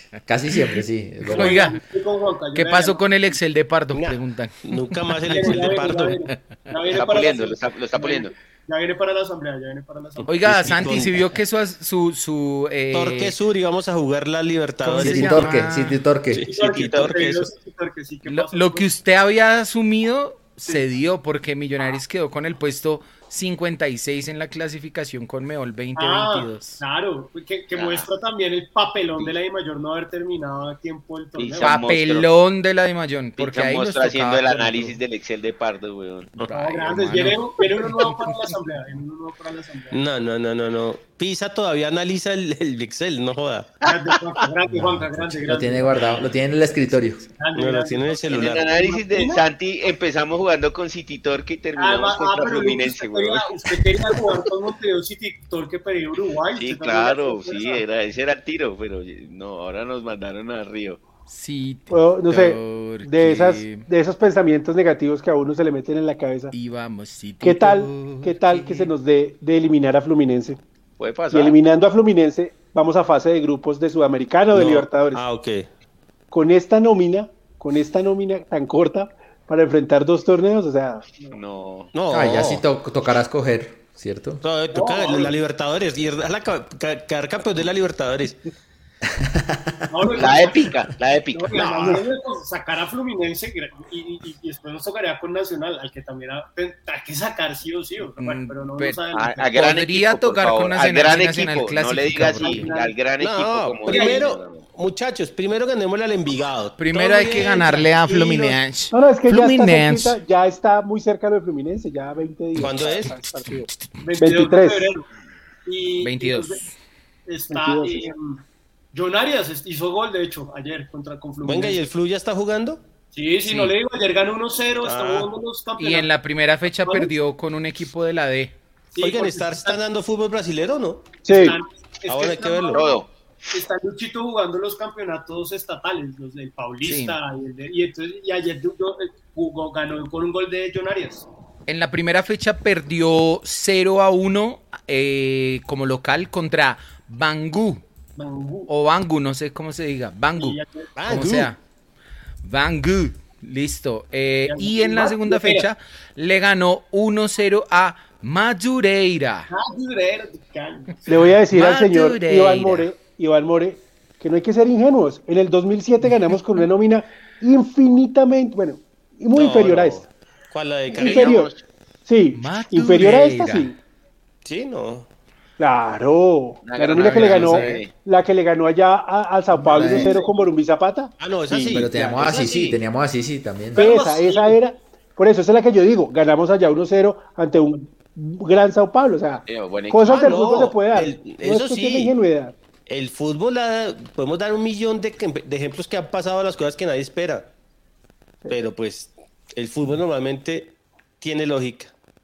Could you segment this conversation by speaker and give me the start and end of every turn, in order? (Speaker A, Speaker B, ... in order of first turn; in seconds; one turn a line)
Speaker A: 0.2-1.7
Speaker B: 1.2-3.0
Speaker C: 1.3-1.8
Speaker C: 2.5-5.7
Speaker D: 3.9-6.2
Speaker B: 5.3-10.3
Speaker C: 6.3-6.7
Speaker E: 6.9-8.3
Speaker D: 10.2-11.2
Speaker C: 10.3-13.3
Speaker D: 12.9-15.6
Speaker C: 14.8-16.0
Speaker A: 14.9-16.4
Speaker D: 16.3-17.5
Speaker B: 16.4-18.9
Speaker E: 16.7-17.2
Speaker C: 18.2-26.8
Speaker B: 25.9-31.8
Speaker E: 27.7-28.1
Speaker E: 31.4-32.3
Speaker C: 31.6-35.0
Speaker E: 33.4-36.4
Speaker C: 36.5-38.4
Speaker B: 36.5-40.0
Speaker D: 39.9-43.8
Speaker E: 43.8-44.2
Speaker B: 43.8-46.1
Speaker A: 44.7-47.2
Speaker B: 47.4-49.4
Speaker D: 47.5-48.7
Speaker E: 48.3-54.4
Speaker B: 51.8-57.8
Speaker E: 56.5-61.0
Speaker C: 61.3-63.9
Speaker F: 61.9-66.5
Speaker C: 66.5-68.9
Speaker F: 67.4-70.6
Speaker E: 71.0-71.6
Speaker F: 71.3-75.2
Speaker D: 74.5-75.7
Speaker F: 76.3-81.0
Speaker E: 81.2-81.9
Speaker D: 81.9-82.6
Speaker A: 82.1-84.4
Speaker D: 84.4-88.4
Speaker B: 84.7-85.3
Speaker A: 89.0-89.7
Speaker B: 89.9-90.7
Speaker E: 90.0-92.0
Speaker B: 91.3-99.6
Speaker C: 98.2-102.7
Speaker E: 99.1-104.6
Speaker B: 102.4-103.0
Speaker D: 103.2-108.4
Speaker B: 103.9-104.2
Speaker C: 106.8-110.2
Speaker F: 108.9-114.9
Speaker C: 112.5-113.9
Speaker D: 112.6-113.2
Speaker B: 114.0-115.1
Speaker B: 115.6-116.6
Speaker C: 116.0-116.7
Speaker B: 117.2-118.4
Speaker F: 117.5-118.1
Speaker B: 118.9-121.8
Speaker D: 121.4-122.8
Speaker B: 123.1-126.1
Speaker C: 123.4-123.8
Speaker D: 124.8-125.3
Speaker C: 125.8-128.6
Speaker B: 126.8-127.1
Speaker B: 128.9-129.8
Speaker D: 129.0-131.2
Speaker B: 131.2-141.3
Speaker F: 131.2-131.6
Speaker D: 132.1-132.9
Speaker E: 132.7-133.1
Speaker C: 136.8-137.2
Speaker C: 141.7-147.8
Speaker B: 148.2-148.7
Speaker C: 148.7-151.6
Speaker B: 150.4-151.2
Speaker D: 150.9-151.5
Speaker C: 152.4-159.5
Speaker B: 154.5-155.7
Speaker B: 159.5-161.2
Speaker F: 161.1-170.0
Speaker C: 161.5-162.9
Speaker D: 169.3-171.4
Speaker E: 170.9-171.6
Speaker F: 170.9-171.5
Speaker F: 172.1-173.7
Speaker C: 172.3-173.7
Speaker D: 174.4-175.1
Speaker F: 175.6-182.3
Speaker E: 176.6-177.9
Speaker C: 177.0-177.8
Speaker B: 179.6-180.5
Speaker A: 179.8-180.1
Speaker D: 181.2-181.9
Speaker A: 181.7-183.9
Speaker E: 182.1-182.8
Speaker B: 183.7-184.6
Speaker F: 183.8-192.5
Speaker E: 189.5-190.3
Speaker D: 190.0-192.1
Speaker D: 192.9-197.5
Speaker D: 198.5-201.9